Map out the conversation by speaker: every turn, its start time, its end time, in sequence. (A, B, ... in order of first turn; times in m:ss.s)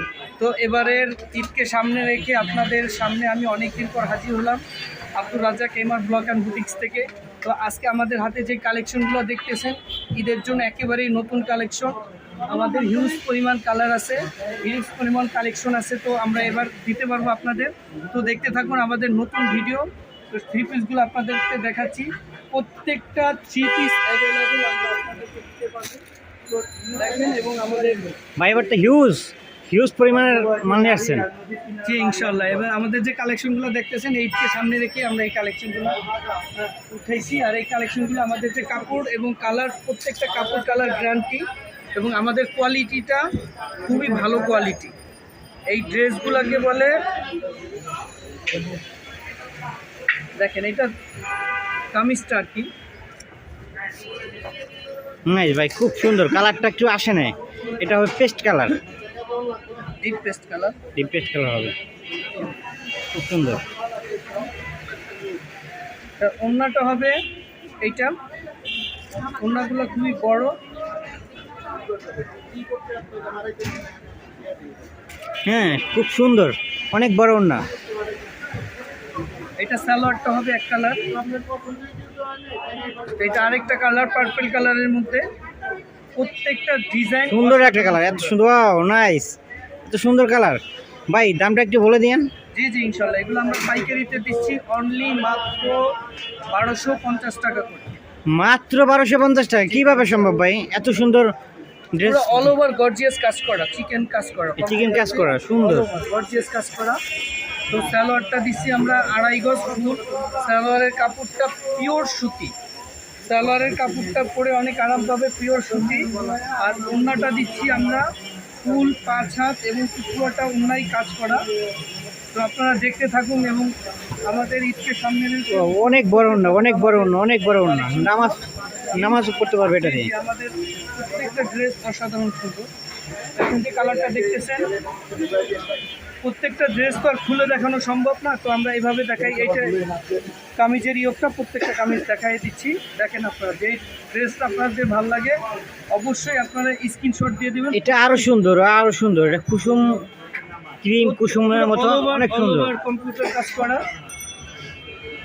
0:00.4-0:04.6 A
0:05.2-0:26.0 A
0:26.8-0:28.1 A
0:28.4-0:31.3 B
0:31.8-0:36.0 A
0:36.6-0:43.3 A
0:43.8-0:44.9 A
0:45.7-0:47.0 A
0:50.4-0:50.9 A
0:51.9-0:52.7 A
0:55.3-0:58.8 B
1:00.0-1:00.8 A
1:01.0-1:01.8 B
1:03.1-1:03.6 B
1:06.2-1:07.2 A
1:07.8-1:08.2 A
1:09.4-1:10.6 A
1:15.5-1:17.6 B
1:19.6-1:21.2 A
1:23.2-1:25.3 A
1:26.2-1:28.4 A
1:27.3-1:29.4 B
1:29.9-1:32.3 B
1:32.5-1:36.0 A
1:36.5-1:38.0 A
1:38.3-1:41.3 B
1:39.6-1:40.3 A
1:41.9-1:42.5 B
1:42.0-1:47.0 A
1:44.6-1:45.9 B
1:47.7-1:52.5 A
1:53.3-1:58.1 A
1:58.6-2:01.5 A
2:02.3-2:12.7 A
2:05.5-2:10.1 B
2:13.4-2:14.7 A
2:16.2-2:19.8 A
2:20.6-2:25.4 A
2:25.9-2:28.2 A
2:27.7-2:30.0 B
2:30.8-2:32.7 B
2:31.0-2:33.8 A